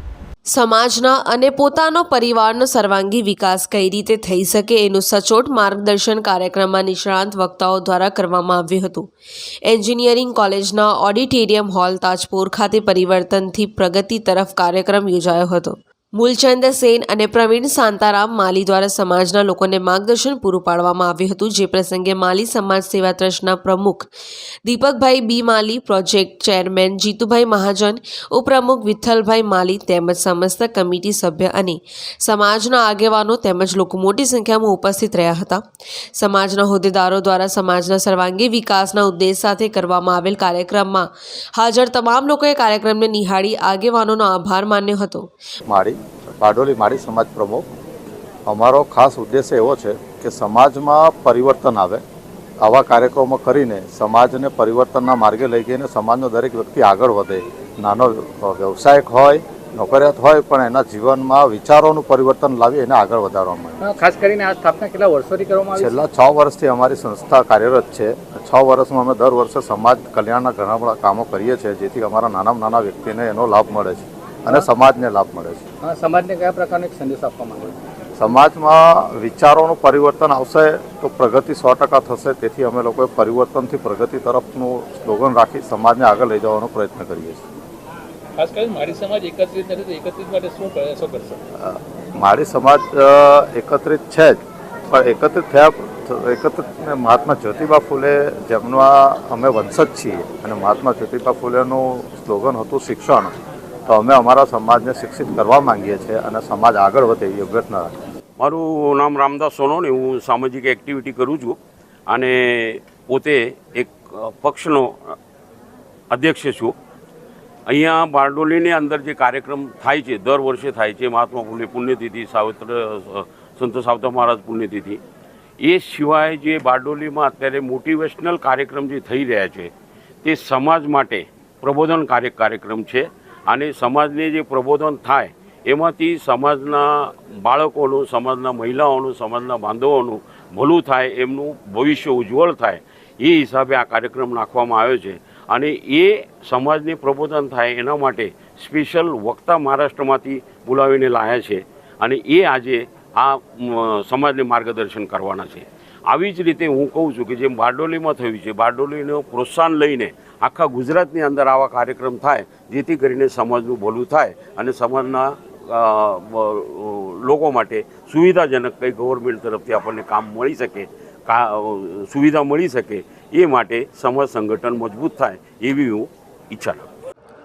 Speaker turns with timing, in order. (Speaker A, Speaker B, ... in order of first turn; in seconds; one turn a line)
Speaker A: 0.5-9.1
Speaker A: 9.7-24.1
Speaker A: 24.6-35.6
Speaker A: 36.1-45.3
Speaker B: 45.7-47.6
Speaker B: 48.5-52.0
Speaker B: 52.6-63.8
Speaker C: 63.8-66.0
Speaker B: 65.8-75.6
Speaker C: 75.8-77.8
Speaker B: 78.2-87.4
Speaker D: 88.4-91.4
Speaker B: 91.6-94.4
Speaker B: 94.9-103.3
Speaker B: 103.9-107.9
Speaker E: 108.4-111.6
Speaker E: 112.1-115.2
Speaker E: 116.1-116.7
Speaker E: 117.7-125.0
Speaker E: 125.6-129.7
Speaker E: 130.2-176.8